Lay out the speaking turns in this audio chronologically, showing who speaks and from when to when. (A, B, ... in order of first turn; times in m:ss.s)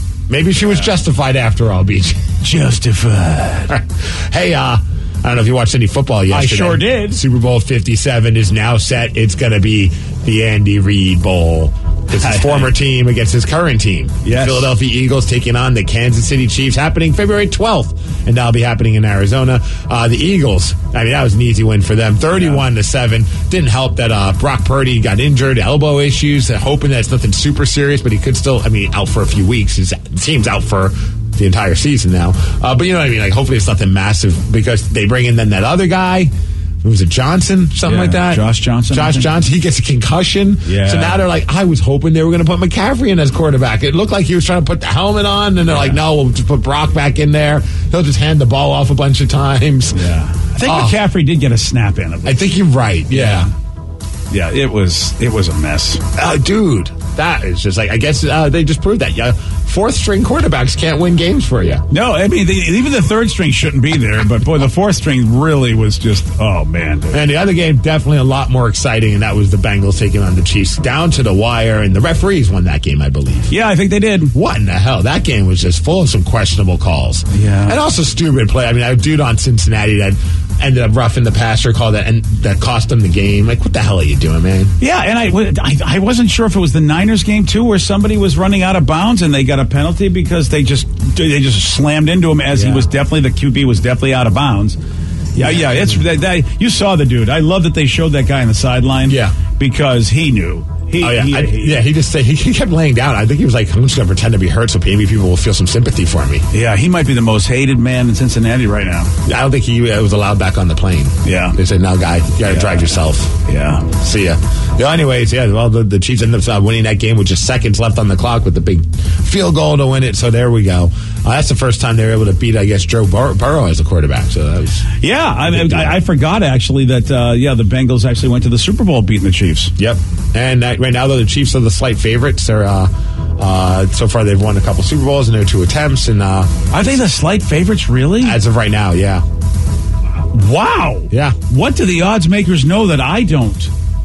0:00.3-0:02.2 A
0:02.4-0:03.7 B
0:03.7-0:36.3 A
0:06.3-0:07.2 B
0:12.2-0:12.7 B
0:14.2-0:14.7 B
0:22.3-0:22.6 B
0:36.8-0:50.0 A
0:37.8-0:39.3 B
0:40.6-0:41.2 B
0:45.7-0:46.0 B
0:49.9-0:52.4 B
0:50.6-0:51.0 A
0:52.2-0:53.5 A
0:53.1-0:53.5 B
0:54.3-0:56.0 B
0:56.1-1:01.8 A
1:01.9-1:07.2 B
1:07.1-1:13.5 A
1:13.5-1:14.3 B
1:14.3-1:24.7 A
1:17.3-1:17.8 B
1:24.8-1:34.8 B
1:32.5-1:32.9 A
1:35.3-1:41.8 B
1:35.4-1:36.0 A
1:39.1-1:39.4 A
1:41.0-1:46.5 A
1:46.5-1:49.1 B
1:49.2-1:53.3 A
1:51.2-1:51.6 B
1:52.4-1:53.9 B
1:53.9-2:04.8 A
2:05.0-2:09.7 B
2:05.4-2:06.0 A
2:09.8-2:16.7 A
2:16.7-2:18.4 B
2:18.2-2:19.2 A
2:20.2-2:23.7 B
2:21.1-2:21.4 A